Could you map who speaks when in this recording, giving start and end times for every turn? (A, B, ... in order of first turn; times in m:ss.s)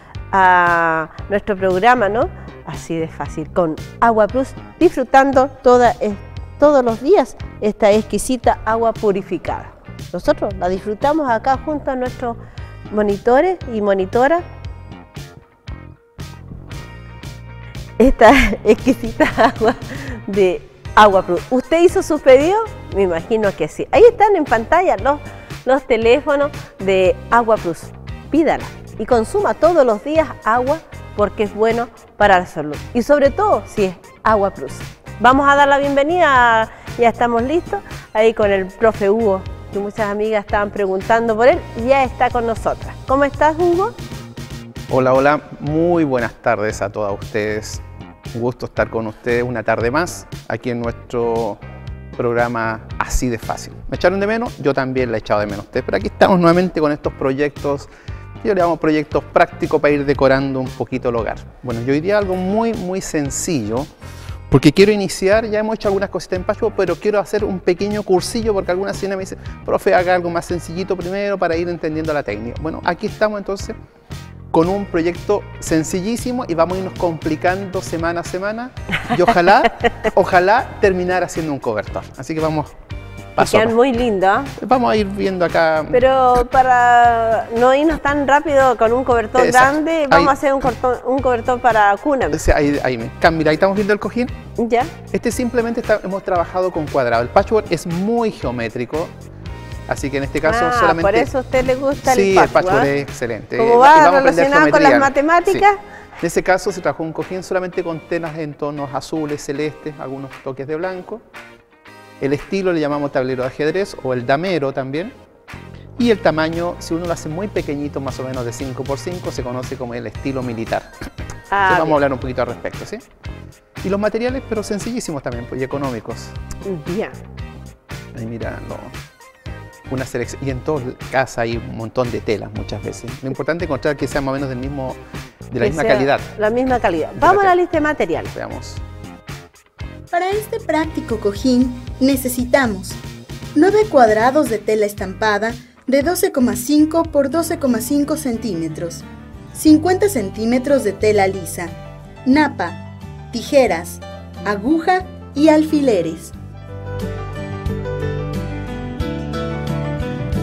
0:00.3-0:12.4 A
0:12.9-0:14.4 A
0:18.0-0:43.9 A
0:44.9-0:47.8 B
0:48.3-0:51.6 B
0:52.2-0:57.9 B
0:58.4-1:03.9 B
1:04.5-1:13.8 B
1:14.5-1:22.7 B
1:23.4-1:23.7 B
1:23.4-1:24.5 A
1:24.6-1:26.0 B
1:25.9-1:32.4 A
1:29.4-1:30.3 B
1:32.3-1:34.3 B
1:34.6-1:34.9 A
1:35.1-1:39.1 B
1:39.9-1:41.3 B
1:40.4-1:42.9 A
1:42.0-1:45.6 B
1:43.6-1:45.8 A
1:46.2-1:51.2 B
1:52.2-1:55.1 B
1:56.0-2:00.9 B
2:01.5-2:02.0 A
2:01.7-2:03.0 B
2:03.8-2:06.4 B
2:06.6-2:07.2 A
2:08.2-2:09.0 B
2:09.9-2:15.0 B
2:15.5-2:16.3 B
2:15.6-2:18.3 A
2:17.2-2:17.6 B
2:18.3-2:18.8 B
2:20.1-2:23.0 C
2:23.6-2:36.4 C